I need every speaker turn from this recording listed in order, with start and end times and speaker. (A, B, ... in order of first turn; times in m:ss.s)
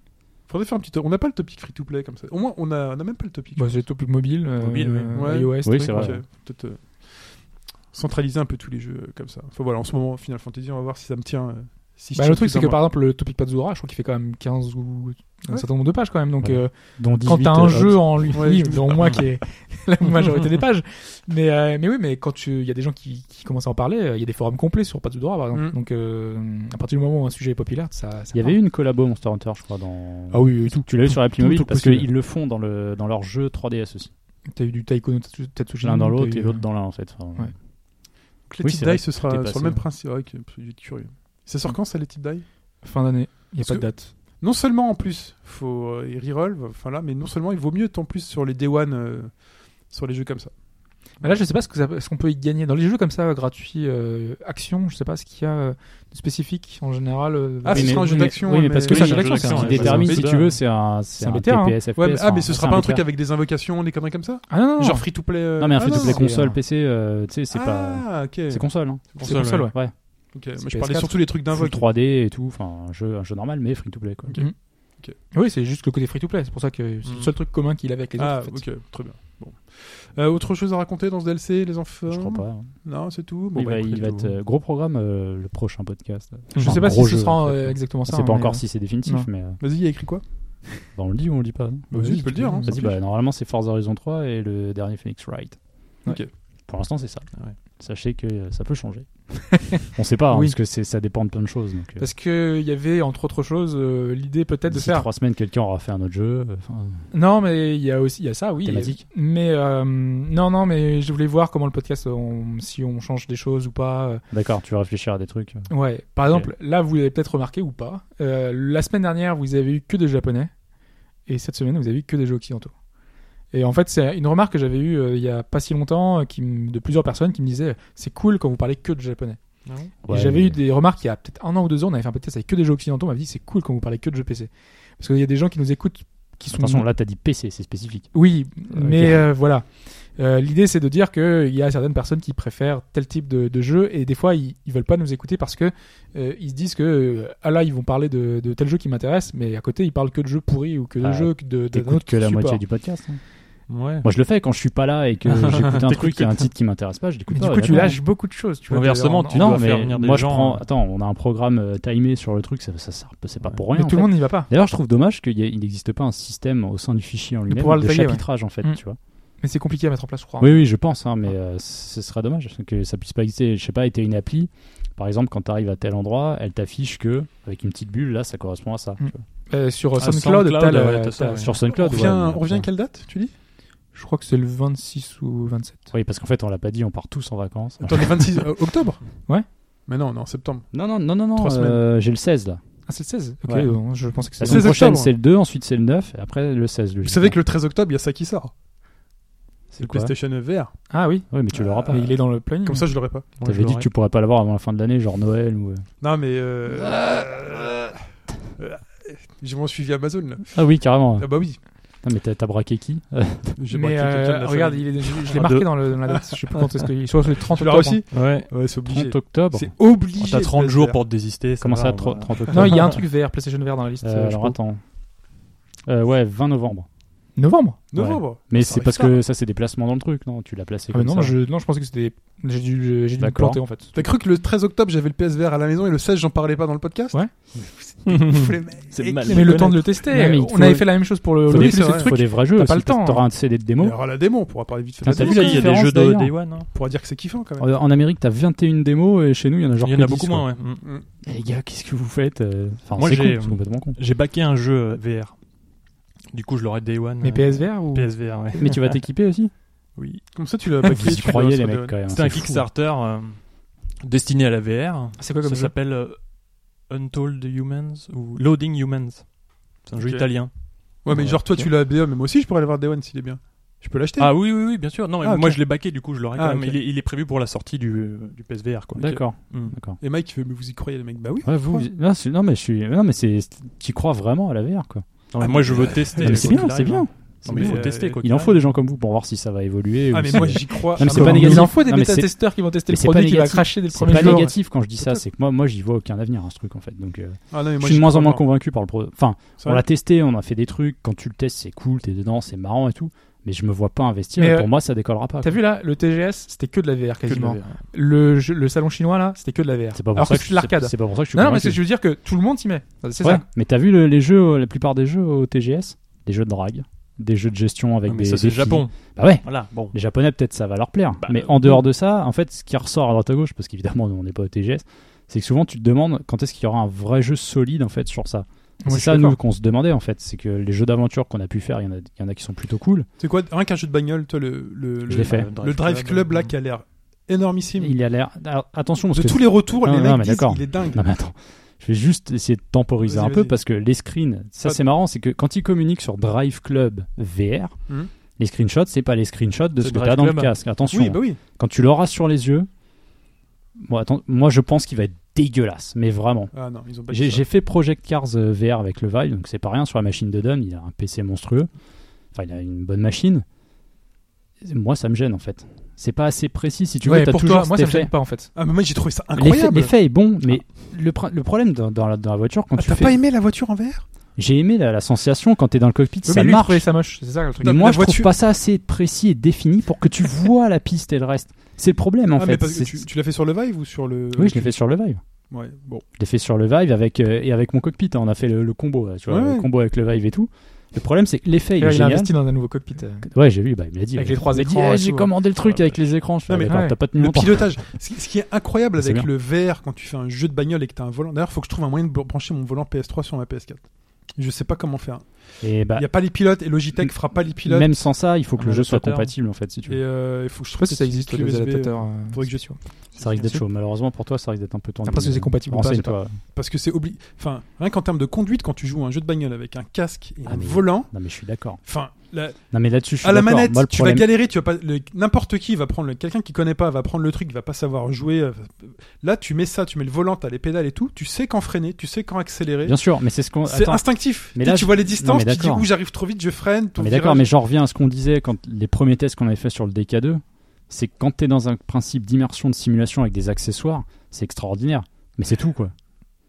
0:00.5-0:03.8 A
0:03.6-0:06.2 B
0:04.6-0:05.1 C
0:05.1-0:12.8 A
0:05.6-0:06.2 D
0:12.1-0:28.6 B
0:16.4-0:18.3 D
0:18.3-0:19.2 A
0:28.3-0:34.1 D
0:30.3-0:32.1 B
0:34.5-0:36.8 B
0:35.8-0:37.5 D
0:38.5-0:42.4 A
0:38.6-0:39.8 D
0:42.8-0:44.1 B
0:44.4-0:50.5 A
0:51.2-1:00.3 B
0:57.6-1:00.4 A
0:57.7-1:03.0 D
0:58.9-1:00.5 C
1:01.2-1:01.8 B
1:02.0-1:06.2 A
1:04.5-1:05.1 B
1:05.6-1:09.9 D
1:05.7-1:06.6 B
1:07.5-1:08.6 A
1:09.2-1:09.7 C
1:09.2-1:09.7 B
1:10.3-1:11.8 A
1:10.6-1:11.2 B
1:11.5-1:14.4 D
1:14.2-1:15.1 A
1:15.3-1:18.6 B
1:18.2-1:24.3 A
1:22.1-1:22.8 D
1:23.5-1:29.6 D
1:26.6-1:29.3 B
1:29.6-1:30.2 A
1:30.9-1:35.6 D
1:31.9-1:32.7 B
1:31.9-1:33.0 A
1:36.7-1:42.0 D
1:40.3-1:40.6 B
1:42.0-1:45.1 B
1:44.7-1:47.0 D
1:47.1-1:54.2 B
1:48.6-1:49.0 D
1:54.3-1:55.7 D
1:55.7-2:00.5 B
2:01.2-2:02.7 B
2:03.5-2:16.8 B
2:09.6-2:09.9 C
2:10.0-2:10.6 D
2:16.5-2:18.2 D
2:18.1-2:32.6 B
2:18.7-2:19.3 D
2:31.0-2:38.0 D
2:33.7-2:34.1 C
2:35.3-2:36.5 C
2:37.3-2:39.6 B
2:38.7-2:40.6 C
2:39.3-2:49.0 D
2:43.7-2:44.5 B
2:47.5-2:48.8 B
2:49.4-2:50.7 B
2:50.4-2:59.2 D
2:59.0-3:01.5 B
3:00.0-3:01.6 C
3:01.4-3:02.7 D
3:01.7-3:03.3 A
3:03.9-3:05.8 B
3:05.9-3:08.4 D
3:07.8-3:09.0 A
3:09.8-3:10.7 A
3:10.7-3:12.6 D
3:11.4-3:11.8 A
3:12.9-3:14.8 B
3:13.4-3:13.7 D
3:14.4-3:17.4 D
3:14.4-3:15.1 A
3:17.0-3:18.5 A
3:19.7-3:20.1 D
3:19.8-3:20.7 A
3:20.9-3:22.9 B
3:21.3-3:22.1 D
3:21.5-3:23.4 A
3:23.4-3:23.9 C
3:23.4-3:25.8 D
3:26.0-3:28.0 A
3:28.6-3:31.6 A
3:30.5-3:33.6 D
3:33.6-3:35.4 A
3:33.7-3:38.0 B
3:35.3-3:35.7 C
3:37.5-3:41.0 A
3:38.1-3:38.5 C
3:38.8-3:39.7 D
3:40.2-3:43.0 C
3:41.6-3:43.0 D
3:42.5-3:44.6 B
3:44.0-3:44.8 D
3:45.8-3:46.9 D
3:47.4-3:47.8 B
3:47.9-3:49.2 A
3:47.9-3:51.3 D
3:50.9-3:54.0 B
3:53.2-3:53.6 D
3:53.9-3:57.2 A
3:57.7-3:59.7 A
3:58.0-4:00.0 C
3:59.2-4:03.2 B
4:00.1-4:04.0 D
4:01.5-4:02.2 A
4:03.8-4:05.8 A
4:05.0-4:06.3 D
4:05.1-4:06.7 C
4:06.7-4:07.7 A
4:07.6-4:10.5 D
4:09.8-4:10.8 C
4:11.2-4:14.0 D
4:12.9-4:15.4 C
4:16.3-4:19.0 C
4:17.2-4:18.2 B
4:18.6-4:19.5 D
4:20.0-4:20.2 C
4:20.3-4:22.0 A
4:20.8-4:21.2 C
4:20.8-4:22.7 D
4:22.1-4:30.5 C
4:25.2-4:25.7 B
4:30.0-4:30.3 A
4:31.0-4:34.3 A
4:31.1-4:31.6 D
4:34.2-4:39.8 C
4:35.2-4:35.6 A
4:36.4-4:36.8 A
4:39.0-4:40.0 D
4:40.0-4:41.9 A
4:41.4-5:05.6 D
4:45.3-4:48.6 C
4:45.4-4:46.8 A
4:47.4-4:48.5 A
4:50.1-4:51.8 A
4:51.0-4:54.5 B
4:54.1-4:55.2 A
4:57.5-4:58.4 A
5:04.4-5:04.7 B
5:05.4-5:13.4 B
5:07.2-5:07.8 C
5:09.9-5:11.8 D
5:13.2-5:33.1 D
5:18.0-5:19.9 C
5:21.2-5:21.8 C
5:28.8-5:29.4 B
5:33.2-5:37.9 A
5:35.1-5:36.5 C
5:35.1-5:35.5 D
5:37.8-5:47.8 D
5:39.1-5:41.0 A
5:43.0-5:43.5 A
5:48.4-5:52.7 D
5:49.8-5:50.5 C
5:50.9-5:51.4 A
5:53.8-5:56.5 D
5:56.5-5:57.4 A
5:57.1-6:01.7 D
6:02.3-6:03.4 D
6:04.6-6:08.1 D
6:07.0-6:08.5 B
6:08.6-6:09.9 A
6:09.3-6:13.2 D
6:12.8-6:14.0 A
6:14.4-6:16.8 D
6:16.2-6:17.9 B
6:17.6-6:18.3 A
6:17.6-6:23.0 D
6:22.4-6:24.7 A
6:24.4-6:25.2 D
6:25.5-6:26.0 A
6:26.2-6:32.3 D
6:29.3-6:29.7 A
6:31.8-6:33.3 B
6:33.2-6:37.7 D
6:34.2-6:35.3 B
6:35.6-6:48.1 A
6:36.7-6:37.0 B
6:39.0-6:39.3 D
6:45.6-6:46.1 D
6:47.0-6:50.0 D
6:48.6-6:49.3 C
6:49.9-6:53.4 A
6:50.8-6:52.8 B
6:53.2-6:56.4 D
6:55.0-6:56.2 B
6:56.5-7:01.1 A
7:00.4-7:01.8 D
7:01.8-7:02.6 A
7:02.7-7:04.3 D
7:03.2-7:13.0 A
7:12.8-7:15.9 D
7:13.6-7:17.5 A
7:17.0-7:25.9 D